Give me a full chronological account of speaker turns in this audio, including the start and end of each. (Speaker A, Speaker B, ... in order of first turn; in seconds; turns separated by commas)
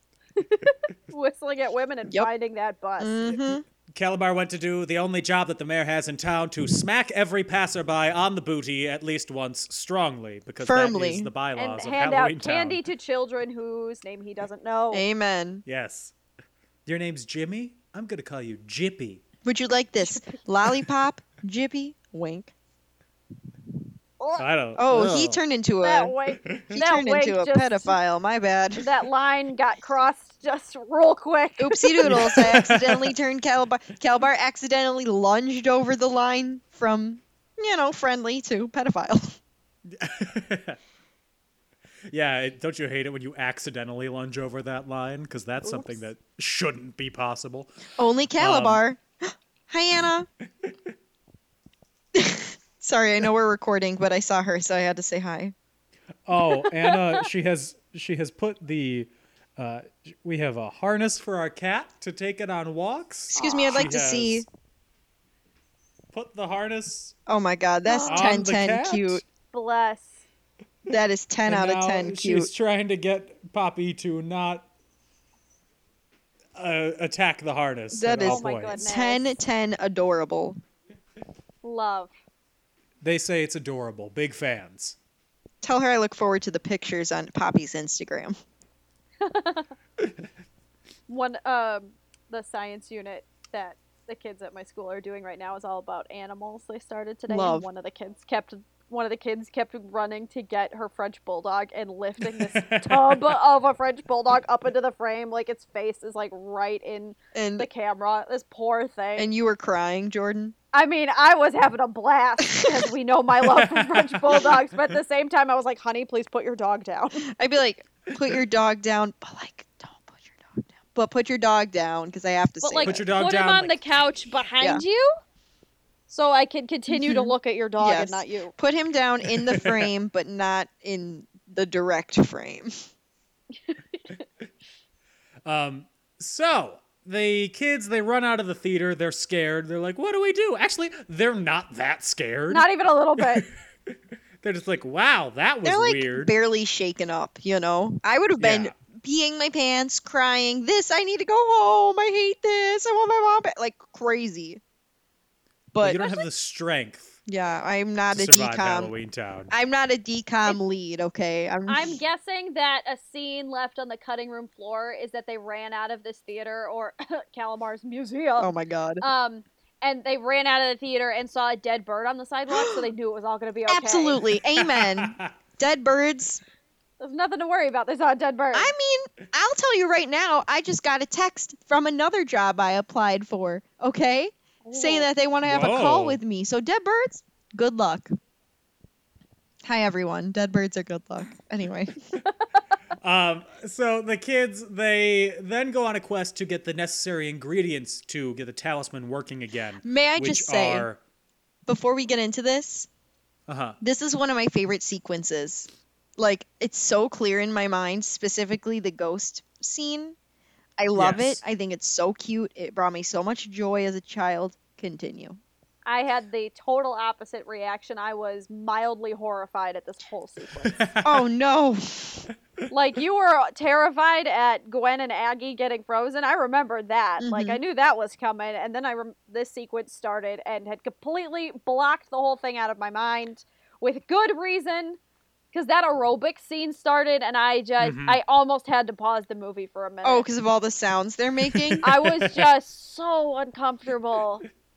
Speaker A: 0.4-3.2, Speaker B: 3.0-3.6, Speaker C: 3.9-12.8, Speaker B: 10.6-11.3, Speaker A: 11.6-15.0, Speaker B: 14.9-15.6, Speaker C: 15.7-16.1, Speaker C: 16.9-19.2, Speaker B: 19.4-22.5, Speaker A: 20.0-20.4, Speaker C: 24.4-25.4, Speaker B: 24.8-26.1, Speaker A: 25.8-27.9, Speaker C: 26.4-26.7, Speaker B: 26.7-28.9, Speaker A: 28.8-32.4, Speaker B: 31.6-39.4, Speaker C: 32.0-33.1, Speaker C: 39.9-40.8, Speaker C: 42.1-47.7, Speaker A: 45.6-46.0, Speaker B: 48.0-50.3, Speaker C: 48.4-48.8, Speaker B: 52.1-55.5, Speaker C: 56.3-64.5, Speaker A: 56.6-57.2, Speaker A: 63.4-63.8, Speaker B: 63.4-64.5, Speaker C: 66.1-67.1, Speaker B: 67.3-69.2, Speaker A: 67.8-68.3, Speaker C: 68.0-69.2, Speaker A: 69.5-70.2, Speaker B: 70.9-72.5, Speaker C: 71.5-74.7, Speaker C: 76.5-78.8, Speaker B: 77.9-80.6, Speaker A: 78.2-79.3, Speaker A: 81.6-82.1, Speaker C: 83.0-85.0, Speaker B: 85.6-88.4, Speaker A: 89.2-89.7, Speaker A: 91.1-109.3, Speaker B: 97.3-97.7, Speaker C: 102.4-103.3, Speaker B: 107.3-107.7, Speaker B: 109.2-110.5, Speaker A: 110.7-117.2, Speaker B: 112.5-112.8, Speaker C: 113.5-114.5, Speaker B: 117.3-123.0, Speaker A: 122.6-125.1, Speaker C: 122.8-123.8, Speaker A: 126.1-128.5, Speaker B: 126.9-132.7, Speaker C: 129.4-129.9, Speaker A: 133.7-134.0, Speaker C: 135.4-142.7, Speaker A: 142.5-143.4, Speaker C: 144.4-146.3, Speaker B: 145.6-154.6, Speaker C: 148.4-148.7, Speaker B: 155.7-156.0, Speaker C: 155.8-157.2, Speaker A: 156.0-156.2, Speaker B: 157.3-158.9, Speaker C: 158.1-159.5, Speaker B: 159.5-162.0, Speaker A: 161.7-168.5, Speaker B: 168.4-169.0, Speaker A: 169.0-174.2, Speaker B: 172.5-172.8, Speaker B: 173.7-176.4, Speaker C: 174.6-175.3, Speaker A: 177.0-178.7, Speaker B: 178.5-188.1, Speaker A: 184.6-185.1, Speaker C: 185.4-186.2, Speaker B: 189.6-191.9, Speaker C: 193.0-201.0, Speaker B: 199.8-200.9, Speaker B: 201.7-202.9, Speaker C: 203.5-203.8, Speaker B: 203.8-210.2, Speaker B: 210.8-215.4, Speaker C: 210.9-211.4, Speaker A: 215.8-220.8, Speaker C: 220.7-221.1, Speaker B: 221.0-222.2, Speaker A: 222.7-235.0, Speaker B: 227.2-227.6, Speaker A: 235.5-240.2, Speaker C: 237.8-238.2, Speaker B: 240.0-241.8, Speaker C: 241.5-242.5, Speaker A: 241.8-244.4